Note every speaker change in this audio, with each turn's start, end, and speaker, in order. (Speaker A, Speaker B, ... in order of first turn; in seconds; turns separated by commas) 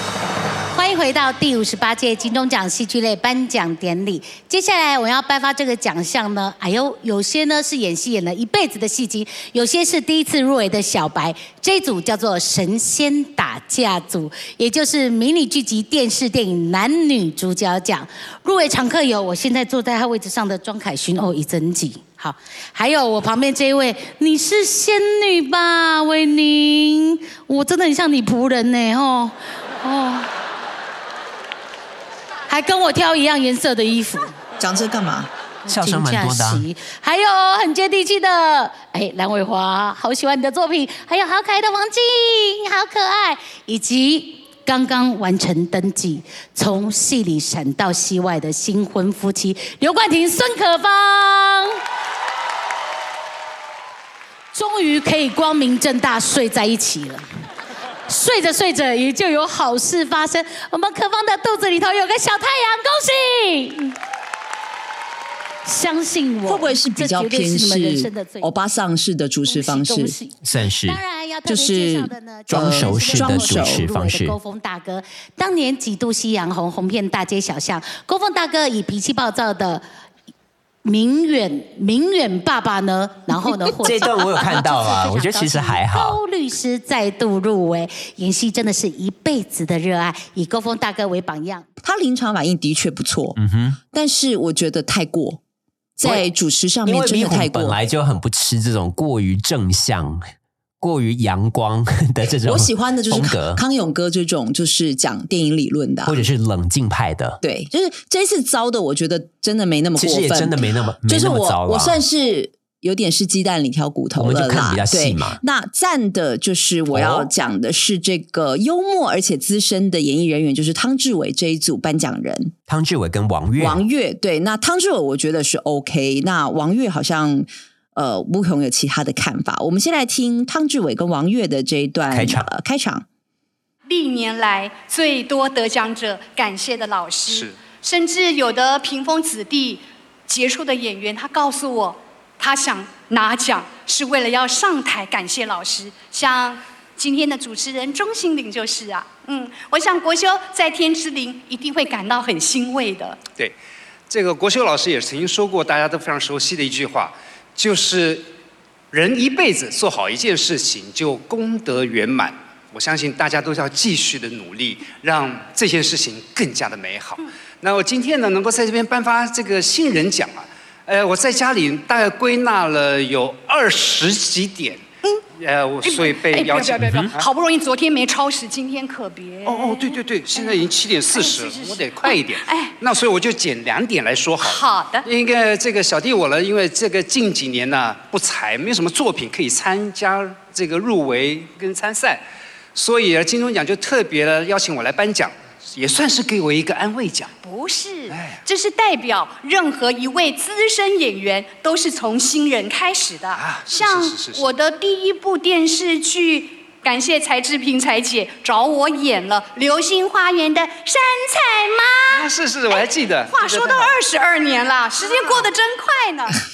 Speaker A: 0.7-30.3, Speaker A: 32.5-34.3, Speaker B: 34.6-35.3, Speaker A: 35.6-51.8, Speaker C: 35.7-36.6, Speaker A: 54.5-57.2, Speaker A: 58.1-63.9, Speaker A: 65.6-68.5, Speaker B: 66.4-70.1, Speaker A: 69.4-79.8, Speaker C: 70.4-71.0, Speaker B: 71.5-73.8, Speaker C: 72.5-74.4, Speaker A: 80.8-91.7, Speaker C: 83.8-86.2, Speaker B: 91.8-93.3, Speaker C: 93.3-93.8, Speaker B: 93.9-95.4, Speaker B: 96.0-97.8, Speaker C: 96.0-96.3, Speaker C: 96.8-100.2, Speaker C: 100.8-103.6, Speaker B: 102.4-106.2, Speaker C: 106.0-107.4, Speaker B: 107.4-122.5, Speaker C: 110.0-112.0, Speaker C: 114.1-115.4, Speaker C: 116.9-117.3, Speaker C: 122.7-123.8, Speaker B: 123.6-133.0, Speaker C: 132.1-132.5, Speaker D: 133.8-153.2, Speaker E: 137.3-137.6, Speaker E: 154.1-158.3, Speaker E: 158.9-177.2, Speaker D: 175.8-182.7, Speaker C: 176.8-177.1, Speaker E: 179.4-192.2, Speaker D: 184.4-185.1, Speaker E: 192.7-197.3, Speaker D: 197.4-216.4, Speaker E: 198.1-198.4, Speaker E: 203.3-204.5, Speaker E: 212.1-213.9, Speaker E: 215.0-215.5